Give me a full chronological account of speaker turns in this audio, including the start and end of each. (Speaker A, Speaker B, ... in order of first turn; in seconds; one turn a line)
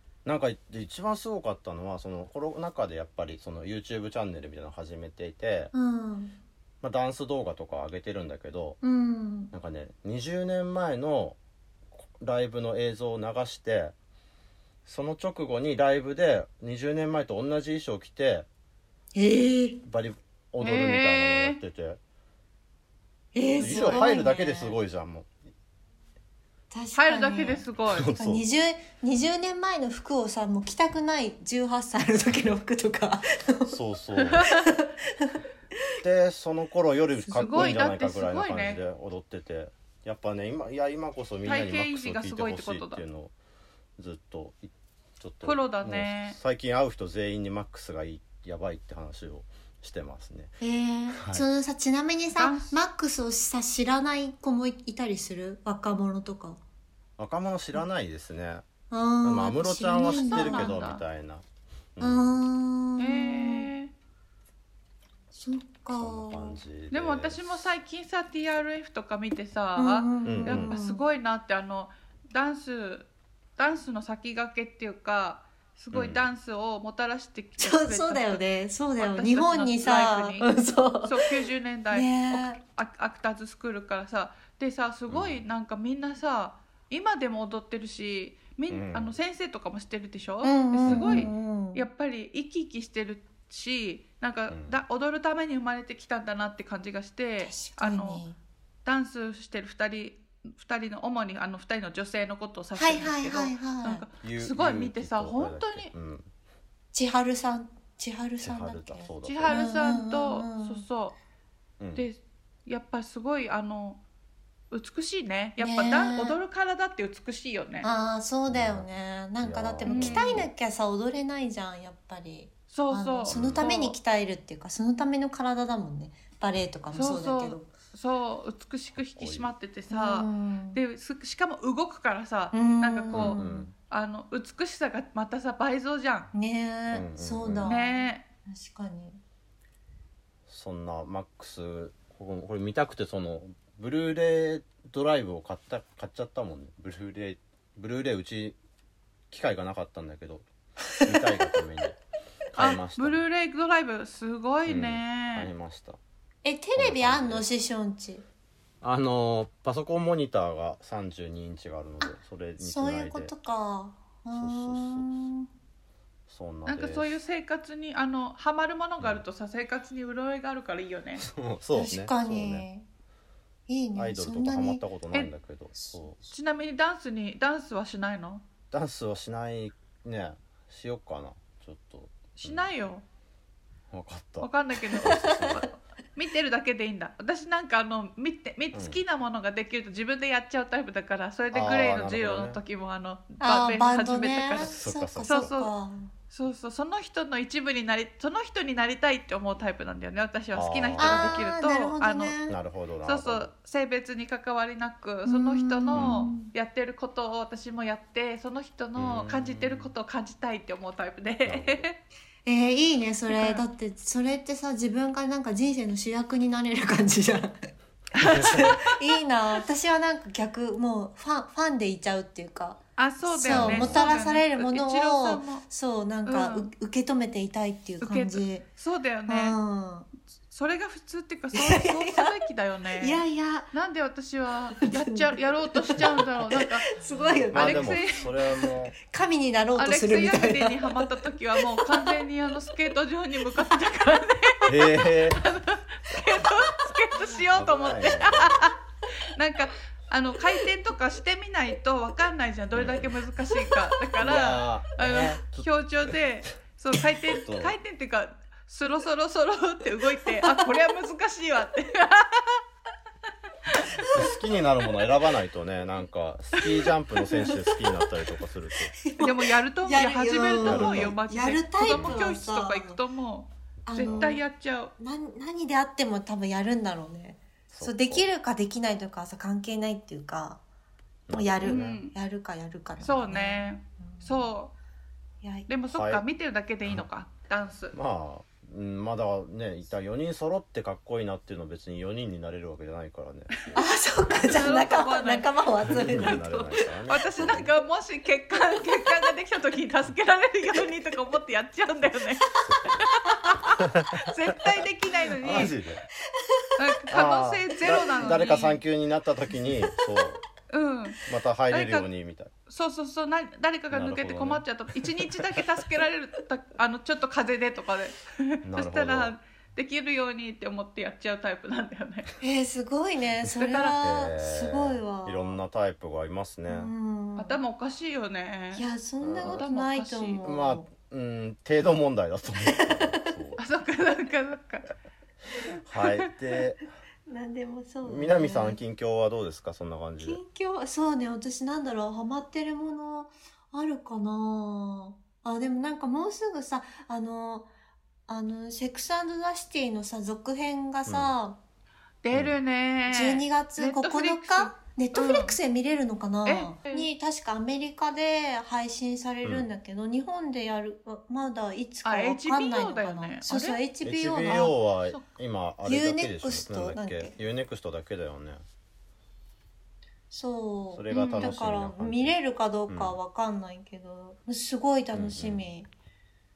Speaker A: 0.2-5.7
Speaker B: 5.7-6.4
Speaker A: 6.8-8.8
Speaker B: 8.8-9.5
Speaker A: 9.5-11.4
Speaker A: 12.2-13.9
Speaker A: 14.8-18.5
Speaker B: 19.1-19.8
Speaker A: 19.9-22.0
Speaker C: 20.6-21.6
Speaker B: 23.3-24.8
Speaker C: 23.5-24.2
Speaker A: 23.6-25.3
Speaker B: 26.7-33.8
Speaker C: 26.9-28.1
Speaker A: 27.8-28.5
Speaker A: 33.7-34.4
Speaker C: 34.4-34.7
Speaker B: 34.4-35.3
Speaker A: 36.0-43.3
Speaker B: 37.3-37.8
Speaker C: 37.3-38.8
Speaker C: 41.5-43.0
Speaker A: 44.0-50.5
Speaker C: 45.4-46.4
Speaker B: 50.6-56.6
Speaker A: 51.2-51.5
Speaker C: 52.4-52.8
Speaker A: 57.2-58.6
Speaker B: 58.9-60.8
Speaker A: 59.2-61.4
Speaker C: 60.0-61.0
Speaker A: 62.0-62.3
Speaker B: 62.0-63.7
Speaker C: 63.0-63.9
Speaker B: 65.3-66.6
Speaker A: 65.9-67.6
Speaker C: 66.9-78.4
Speaker B: 69.8-71.0
Speaker A: 70.2-70.8
Speaker A: 75.9-76.2
Speaker B: 77.6-81.3
Speaker C: 79.0-98.2
Speaker B: 81.9-82.6
Speaker A: 85.1-85.5
Speaker A: 88.7-89.1
Speaker B: 90.4-91.9
Speaker A: 90.8-91.3
Speaker A: 94.5-94.8
Speaker B: 97.4-98.4
Speaker C: 98.8-105.9
Speaker B: 102.8-104.1
Speaker A: 104.2-106.3
Speaker B: 106.9-110.9
Speaker A: 108.4-109.6
Speaker C: 109.2-111.2
Speaker A: 111.8-112.1
Speaker C: 112.0-114.0
Speaker C: 114.7-117.9
Speaker B: 115.6-116.4
Speaker B: 117.8-127.7
Speaker A: 118.5-118.9
Speaker A: 119.4-120.5
Speaker C: 119.9-120.3
Speaker C: 122.7-124.0
Speaker A: 123.3-123.7
Speaker C: 126.9-136.3
Speaker A: 129.1-129.5
Speaker B: 129.9-130.8
Speaker B: 132.5-133.7
Speaker A: 133.1-133.7
Speaker B: 136.3-139.2
Speaker A: 136.9-137.7
Speaker C: 137.7-138.2
Speaker A: 140.5-148.6
Speaker A: 149.3-152.0
Speaker A: 152.5-153.2
Speaker C: 152.6-155.5
Speaker A: 154.7-156.0
Speaker B: 156.4-158.2
Speaker A: 156.8-157.5
Speaker A: 158.8-163.3
Speaker B: 162.0-165.5
Speaker A: 164.3-165.2
Speaker A: 166.3-167.2
Speaker C: 166.7-171.2
Speaker A: 171.2-172.7
Speaker B: 171.7-172.9
Speaker B: 173.7-174.8
Speaker A: 174.0-176.2
Speaker B: 175.7-176.2
Speaker C: 176.3-178.4
Speaker A: 178.7-182.7
Speaker C: 182.4-183.0
Speaker A: 183.9-185.7
Speaker C: 184.4-195.7
Speaker B: 184.8-185.7
Speaker A: 188.7-189.0
Speaker A: 191.5-192.6
Speaker B: 193.4-196.1
Speaker A: 194.6-195.5
Speaker C: 196.3-202.4
Speaker A: 200.5-201.2
Speaker B: 201.0-202.6
Speaker A: 202.5-203.5
Speaker C: 203.0-212.0
Speaker B: 205.2-206.5
Speaker A: 205.9-206.3
Speaker A: 209.0-209.9
Speaker A: 211.4-211.9
Speaker B: 212.4-217.7
Speaker C: 213.3-213.7
Speaker C: 218.2-218.8
Speaker B: 218.3-228.7
Speaker A: 218.3-218.7
Speaker C: 223.0-225.7
Speaker A: 223.4-224.1
Speaker C: 226.2-226.7
Speaker C: 228.0-229.6
Speaker B: 229.3-230.1
Speaker C: 230.5-236.9
Speaker B: 231.5-232.4
Speaker B: 233.0-233.7
Speaker B: 234.7-242.2
Speaker A: 237.4-239.0
Speaker C: 237.5-238.3
Speaker C: 239.8-248.8
Speaker A: 244.7-245.5
Speaker A: 247.5-248.7
Speaker C: 249.3-262.6
Speaker A: 252.7-253.0
Speaker A: 254.2-255.7
Speaker A: 257.4-257.8
Speaker B: 260.3-260.6
Speaker C: 263.7-264.1
Speaker A: 264.1-269.0
Speaker B: 267.4-268.0
Speaker B: 269.0-273.0
Speaker C: 269.2-274.9
Speaker A: 270.5-271.2
Speaker A: 271.8-272.2
Speaker B: 273.9-274.4
Speaker A: 274.0-274.3
Speaker B: 275.0-280.6
Speaker A: 277.7-278.3
Speaker A: 281.3-282.0
Speaker B: 281.3-284.5
Speaker C: 281.6-282.1
Speaker C: 283.0-284.8
Speaker B: 285.4-285.8
Speaker C: 285.7-288.0
Speaker A: 285.9-286.2
Speaker A: 287.9-293.8
Speaker B: 293.7-297.5
Speaker C: 294.4-295.5
Speaker A: 295.9-297.7
Speaker C: 297.1-305.7
Speaker A: 302.7-303.1
Speaker B: 302.7-303.0
Speaker A: 305.4-306.1
Speaker C: 306.8-308.8
Speaker A: 307.1-310.4
Speaker B: 308.0-308.4
Speaker B: 309.6-310.1
Speaker C: 310.7-311.2
Speaker A: 311.3-312.5
Speaker C: 311.7-312.1
Speaker C: 312.7-322.3
Speaker A: 313.9-314.7
Speaker A: 318.6-319.4
Speaker B: 322.4-325.6
Speaker C: 323.5-324.0
Speaker A: 324.0-326.9
Speaker B: 326.7-327.6
Speaker C: 327.4-328.9
Speaker B: 328.7-330.9
Speaker A: 329.2-329.7
Speaker C: 329.4-330.4
Speaker A: 330.4-333.6
Speaker B: 332.7-333.4
Speaker C: 333.6-334.9
Speaker A: 335.8-336.8
Speaker B: 337.3-338.8
Speaker A: 338.0-340.4
Speaker B: 340.2-347.7
Speaker B: 348.3-351.6
Speaker A: 351.1-351.4
Speaker C: 352.2-355.6
Speaker A: 352.3-352.6
Speaker B: 353.1-364.7
Speaker C: 356.4-357.1
Speaker A: 359.4-359.7
Speaker C: 362.0-363.8
Speaker A: 364.0-368.6
Speaker C: 364.5-365.2
Speaker B: 365.8-367.4
Speaker B: 370.3-375.9
Speaker A: 370.9-372.4
Speaker C: 371.1-371.5
Speaker A: 372.9-373.2
Speaker A: 375.1-375.7